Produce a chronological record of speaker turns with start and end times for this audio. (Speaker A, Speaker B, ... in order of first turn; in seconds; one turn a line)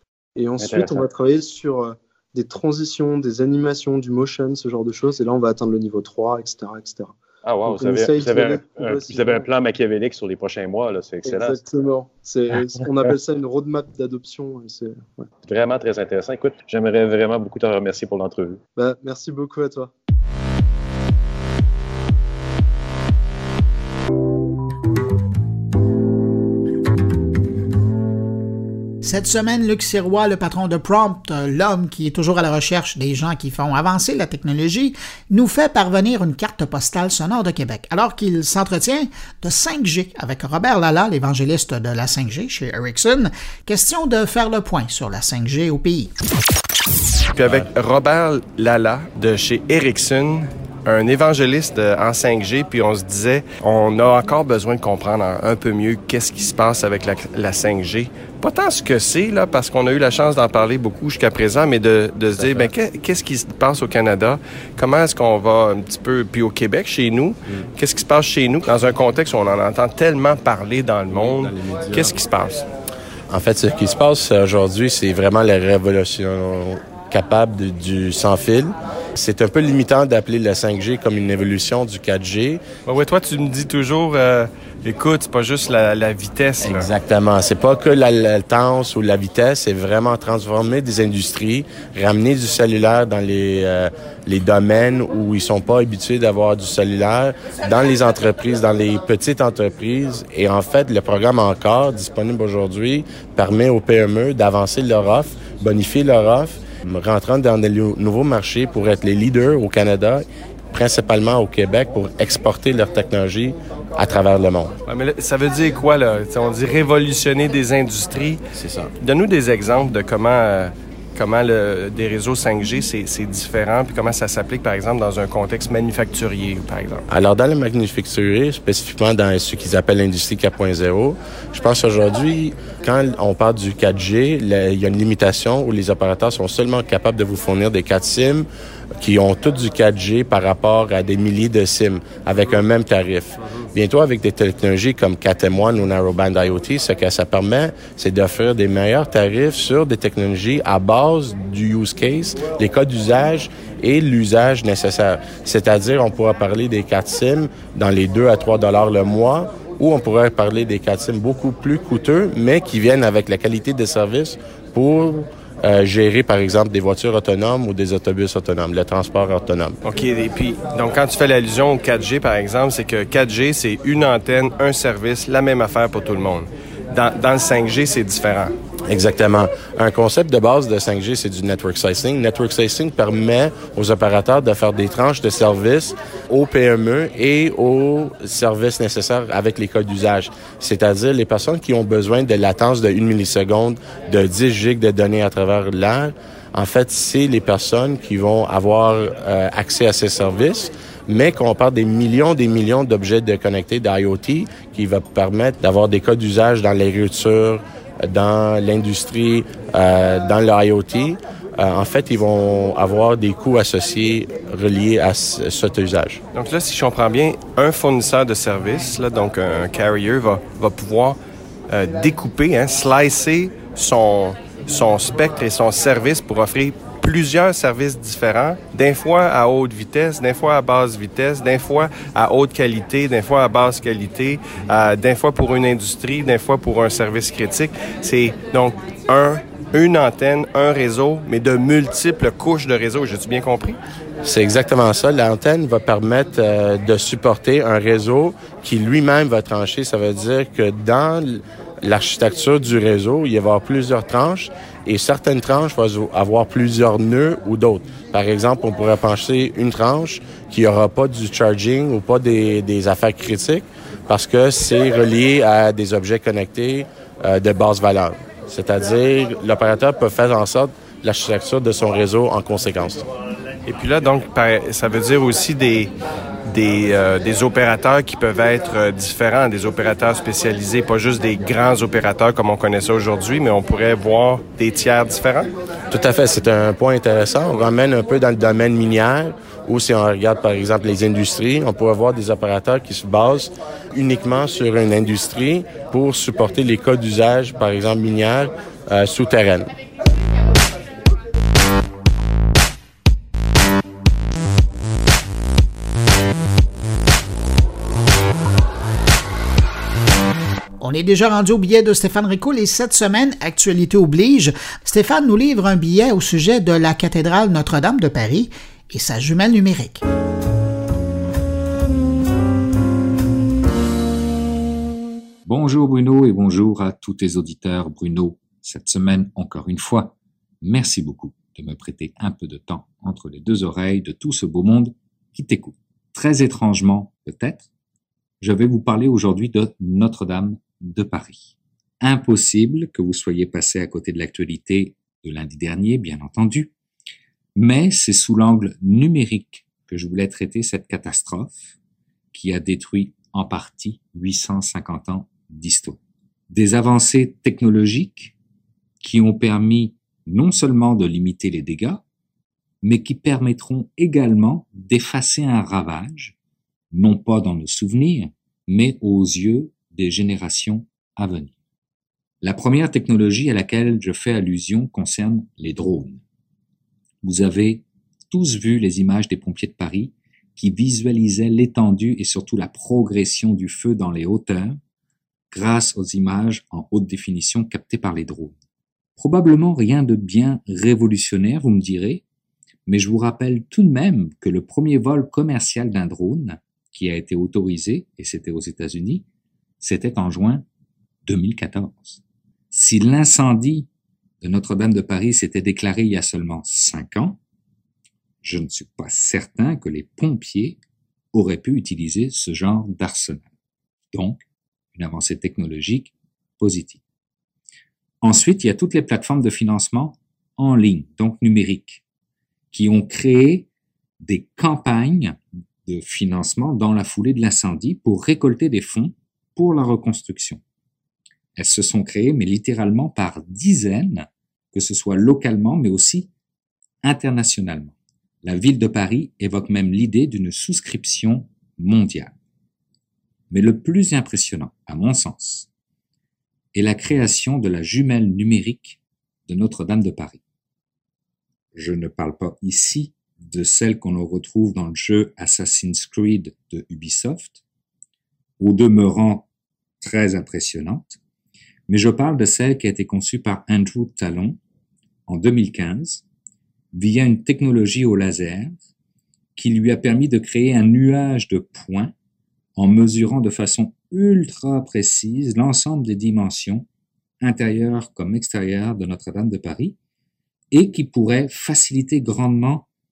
Speaker A: 0.3-9.5
Speaker B: 0.6-1.0
Speaker B: 7.4-11.6
Speaker A: 11.2-15.3
Speaker B: 12.8-13.1
Speaker B: 15.5-18.6
Speaker A: 18.8-19.9
Speaker C: 29.0-46.1
Speaker D: 47.4-72.7
Speaker E: 73.3-82.6
Speaker D: 82.8-86.9
Speaker E: 86.9-114.7
Speaker D: 114.8-127.0
Speaker E: 127.1-138.5
Speaker E: 139.0-169.8
Speaker D: 169.8-178.5
Speaker E: 178.9-216.2
Speaker D: 216.3-221.2
Speaker D: 221.7-243.8
Speaker E: 244.2-273.0
Speaker D: 273.6-275.9
Speaker D: 276.5-285.5
Speaker E: 285.9-299.7
Speaker C: 310.8-320.0
Speaker F: 325.4-337.7
Speaker F: 338.4-346.7
Speaker F: 347.5-351.7
Speaker F: 352.3-356.0
Speaker F: 356.5-358.3
Speaker F: 359.0-362.0
Speaker F: 362.8-366.4
Speaker F: 366.9-371.5
Speaker F: 372.4-376.2
Speaker F: 377.2-384.8
Speaker F: 385.5-388.6
Speaker F: 389.1-392.2
Speaker F: 392.9-399.2
Speaker F: 399.8-400.6
Speaker F: 401.2-403.9
Speaker F: 404.4-407.4
Speaker F: 408.4-410.8
Speaker F: 411.3-413.5
Speaker F: 414.1-417.0
Speaker F: 418.2-422.0
Speaker F: 422.7-423.7
Speaker F: 424.2-430.6
Speaker F: 431.6-436.3
Speaker F: 437.0-442.3
Speaker F: 443.5-445.7
Speaker F: 446.7-450.4
Speaker F: 451.7-457.6
Speaker F: 458.6-459.5
Speaker F: 460.0-461.2
Speaker F: 461.9-464.6
Speaker F: 465.3-466.2
Speaker F: 466.9-468.8
Speaker F: 469.6-472.1
Speaker F: 472.8-476.9
Speaker F: 477.4-480.0
Speaker F: 480.7-482.9